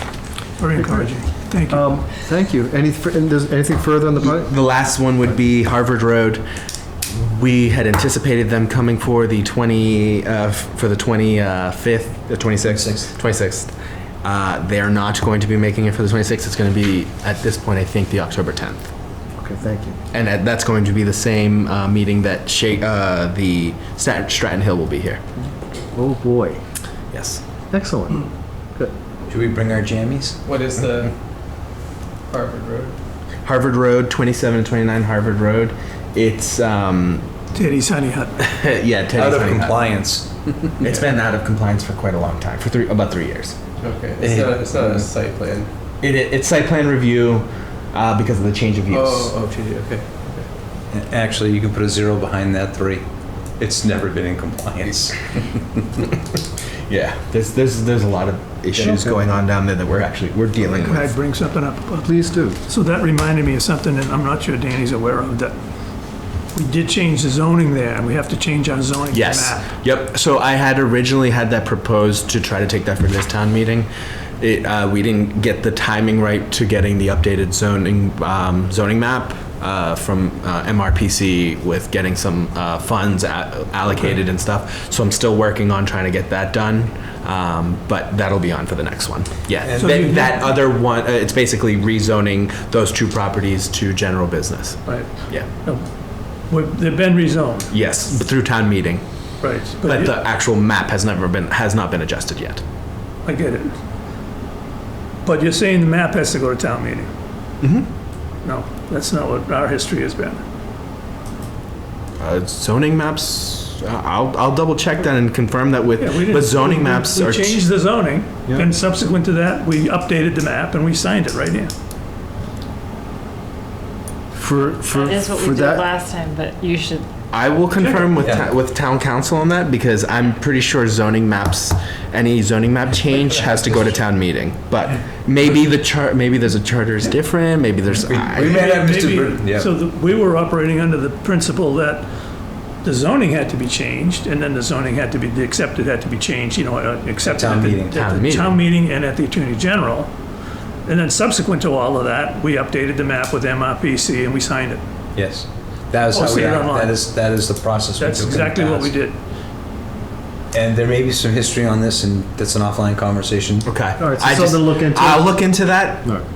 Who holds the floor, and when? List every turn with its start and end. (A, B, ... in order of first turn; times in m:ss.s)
0:00.6-0:02.0 A
0:00.8-0:01.1 B
0:01.7-0:04.5 B
0:04.2-0:06.4 C
0:07.1-0:13.7 C
0:12.6-0:13.1 D
0:14.2-0:18.9 C
0:19.4-0:20.0 B
0:20.1-0:25.2 C
0:25.9-0:26.6 B
0:27.1-0:27.4 C
0:27.7-0:28.9 B
0:29.3-0:30.4 D
0:30.4-0:31.1 E
0:32.3-0:32.9 E
0:33.4-0:37.2 C
0:37.5-0:38.3 A
0:38.4-0:39.8 C
0:39.1-0:40.5 D
0:40.8-0:43.6 C
0:43.8-0:45.7 E
0:44.2-0:44.7 D
0:44.2-0:45.0 C
0:46.0-0:49.4 C
0:48.9-0:50.3 E
0:50.9-0:53.0 D
0:53.6-0:55.5 D
0:56.9-1:01.1 C
0:58.8-0:59.2 B
1:00.7-1:02.1 A
1:02.0-1:02.6 B
1:02.7-1:05.6 A
1:06.5-1:09.7 A
1:09.1-1:13.9 C
1:14.4-1:35.4 C
1:29.6-1:30.2 D
1:29.8-1:30.5 A
1:34.8-1:35.8 A
1:36.4-1:37.7 A
1:37.7-1:39.0 C
1:39.4-1:40.1 A
1:39.8-1:42.6 C
1:43.2-1:43.8 A
1:45.2-1:47.1 A
1:47.6-1:47.9 C
1:48.4-1:50.4 A
1:52.2-1:57.6 C
1:56.0-2:01.7 A
2:04.3-2:05.9 B
2:04.9-2:07.0 F
2:07.3-2:18.6 C
2:08.1-2:08.5 D
2:13.3-2:14.0 D
2:17.9-2:19.7 D
2:18.4-2:22.1 A
2:22.8-2:30.1 A
2:27.2-2:28.0 D
2:27.9-2:28.6 C
2:30.8-2:34.8 A
2:35.1-2:38.9 D
2:36.1-2:37.2 A
2:38.0-2:39.2 A
2:40.5-2:43.7 D
2:43.6-2:46.1 C
2:44.0-2:46.2 B